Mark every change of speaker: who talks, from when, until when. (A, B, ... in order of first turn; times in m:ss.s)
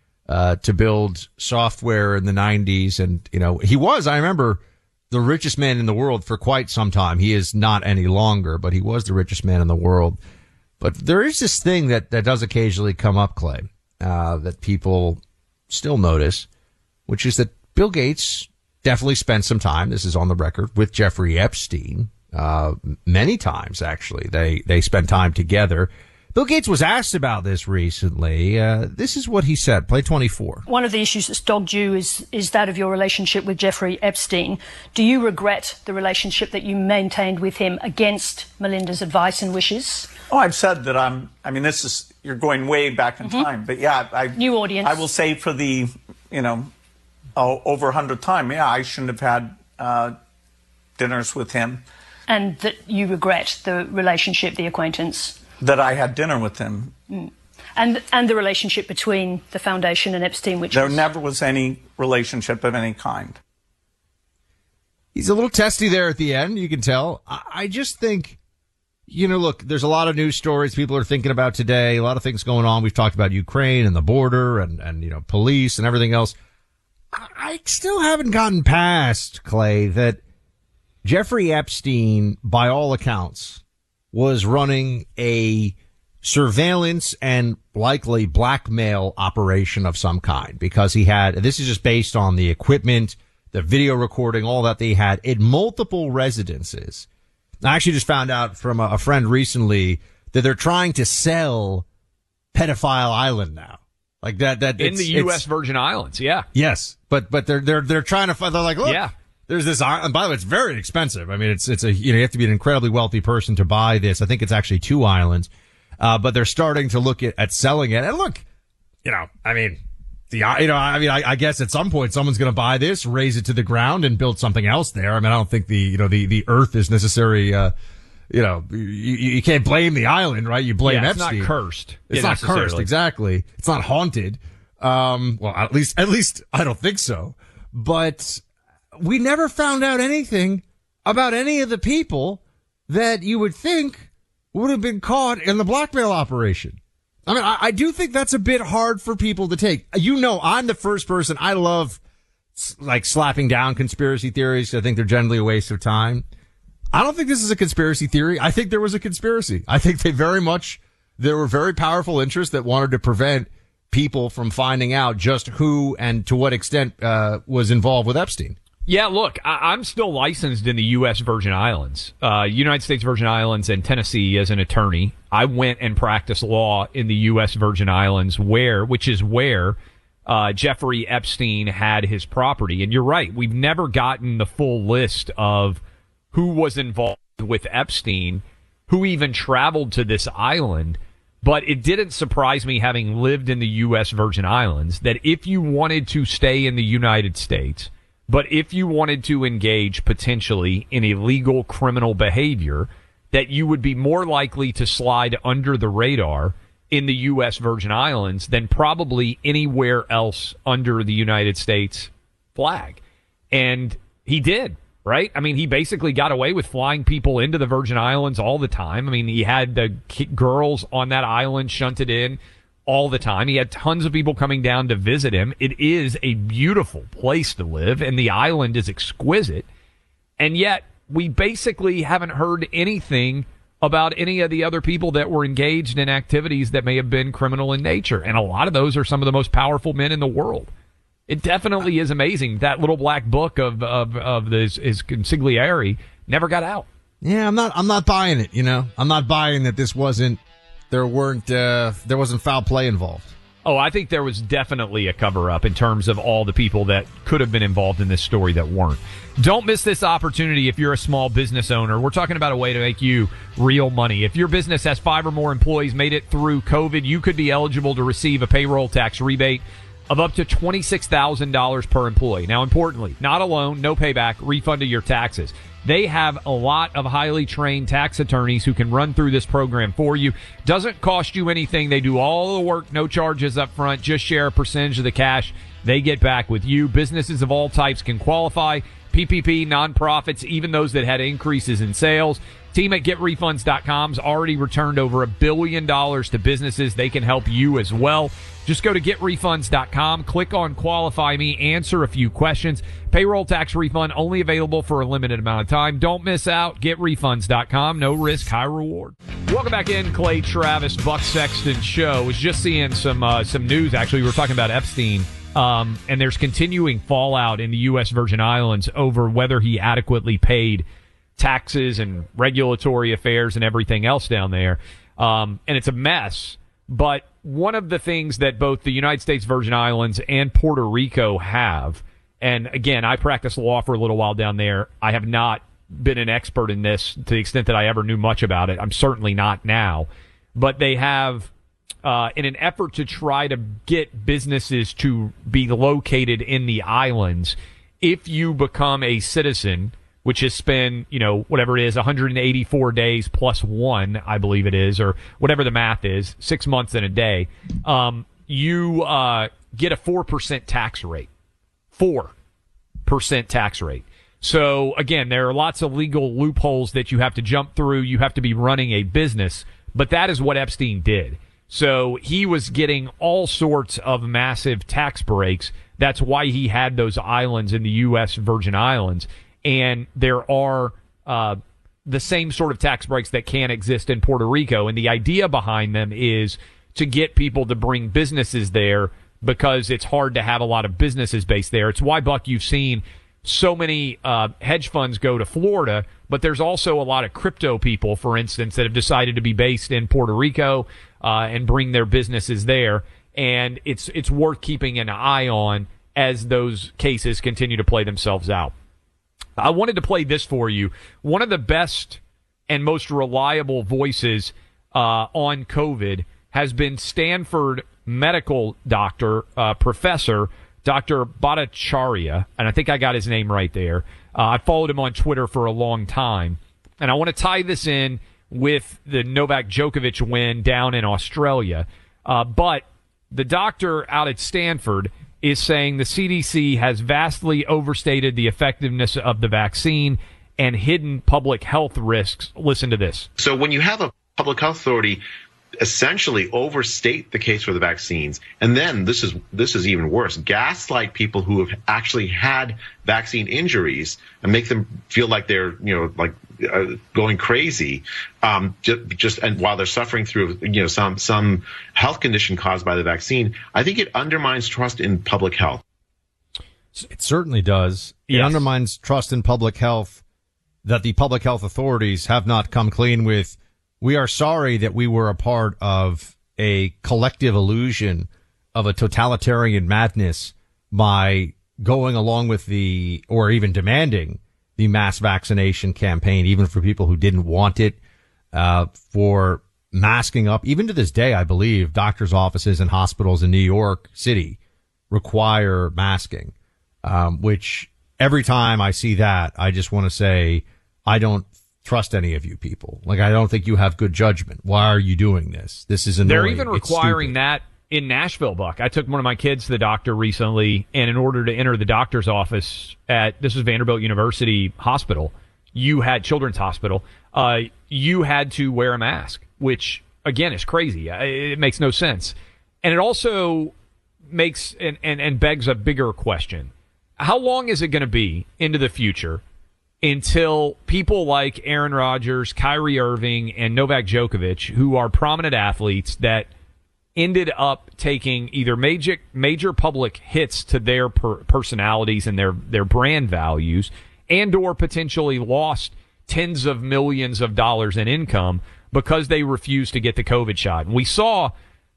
0:00.3-0:10.2 A
0:10.8-0:16.5 A
0:17.1-0:30.6 A
0:30.7-0:40.1 B
0:40.3-0:46.7 C
0:43.2-0:43.5 B
0:44.3-0:45.1 B
0:47.4-0:50.2 C
0:51.0-0:51.8 C
0:52.3-0:55.4 B
0:55.6-0:57.0 C
0:57.1-1:01.0 B
1:00.7-1:03.4 C
1:05.2-1:08.4 A
1:09.1-1:16.4 A
1:17.1-1:20.2 A
1:21.0-1:37.1 A
1:37.6-1:41.9 A
1:42.5-1:45.4 A
1:44.8-1:46.5 D
1:46.5-1:58.4 A
1:48.8-1:49.1 D
1:59.0-2:07.7 A
2:08.3-2:11.5 A
2:10.8-2:12.9 D
2:12.1-2:18.4 A
2:19.0-2:32.0 A
2:32.6-2:36.3 A
2:36.9-2:48.6 A
2:48.9-3:05.8 D
3:06.3-3:33.0 D
3:33.5-3:49.7 D
3:50.4-4:00.7 D
4:01.3-4:06.9 D
4:07.2-4:10.4 A
4:10.9-4:13.4 A
4:13.6-5:20.8 D
5:21.4-5:41.5 D
5:42.0-6:01.3 D
6:02.0-6:02.3 D
6:03.1-6:48.7 D
6:49.6-7:23.3 D
7:23.4-7:25.2 E
7:25.8-7:45.8 E
7:47.0-7:50.2 A
7:48.3-7:48.7 D
7:50.8-8:08.0 A
8:08.5-8:14.6 A
8:15.1-8:27.4 A
8:26.2-8:43.7 D
8:44.3-8:49.4 D
8:50.0-8:56.5 D
8:57.2-9:11.5 D